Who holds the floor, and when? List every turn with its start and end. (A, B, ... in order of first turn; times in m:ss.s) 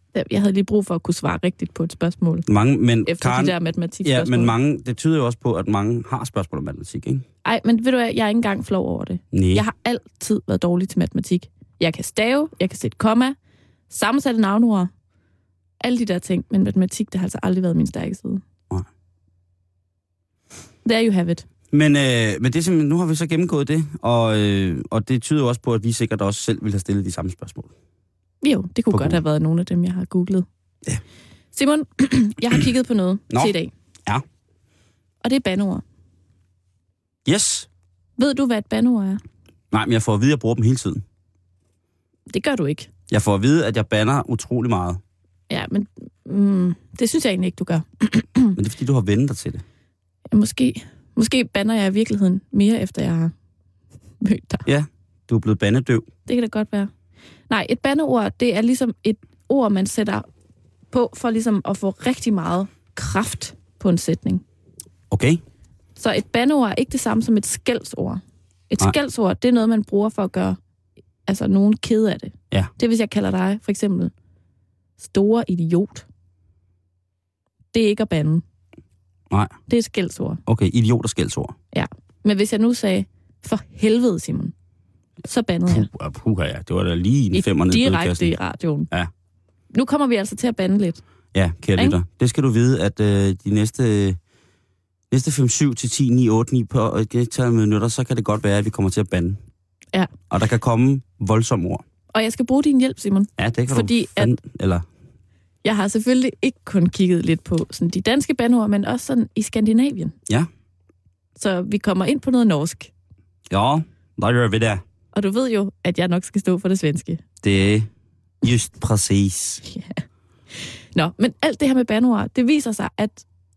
0:00.1-0:02.5 A
0:02.5-0:07.2 B
0:03.0-0:04.5 A
0:07.4-0:13.3 A
0:09.3-0:09.6 B
0:13.9-0:14.9 A
0:15.8-0:18.4 A
0:20.8-0:21.4 A
0:21.7-0:27.7 B
0:28.4-0:30.4 A
0:28.9-0:29.2 B
0:31.5-0:33.7 A
0:35.2-0:35.8 A
0:37.2-0:37.7 B
0:38.2-0:39.2 A
0:39.7-0:41.0 B
0:42.3-0:42.9 A
0:43.1-0:45.0 B
0:45.5-0:48.5 A
0:48.5-0:49.6 B
0:50.3-0:53.3 A
0:54.2-0:54.6 A
0:54.6-0:56.1 B
0:56.2-0:56.9 A
0:57.5-1:00.2 A
1:00.9-1:04.4 A
1:05.1-1:05.4 B
1:06.0-1:10.6 A
1:11.2-1:14.1 A
1:15.0-1:16.0 A
1:17.7-1:18.4 A
1:19.3-1:19.6 B
1:19.7-1:20.4 A
1:20.4-1:21.5 B
1:21.7-1:24.5 A
1:25.2-1:25.9 A
1:25.7-1:28.3 B
1:27.3-1:28.9 A
1:29.7-1:31.0 A
1:31.3-1:34.2 B
1:35.1-1:39.4 B
1:40.3-1:41.8 B
1:42.1-1:44.4 A
1:43.4-1:44.8 B
1:45.6-1:50.1 A
1:51.4-1:52.9 A
1:53.5-1:54.8 B
1:55.1-1:57.2 A
1:57.4-1:57.9 B
1:58.4-1:59.6 B
1:59.6-2:00.0 A
2:00.5-2:03.2 A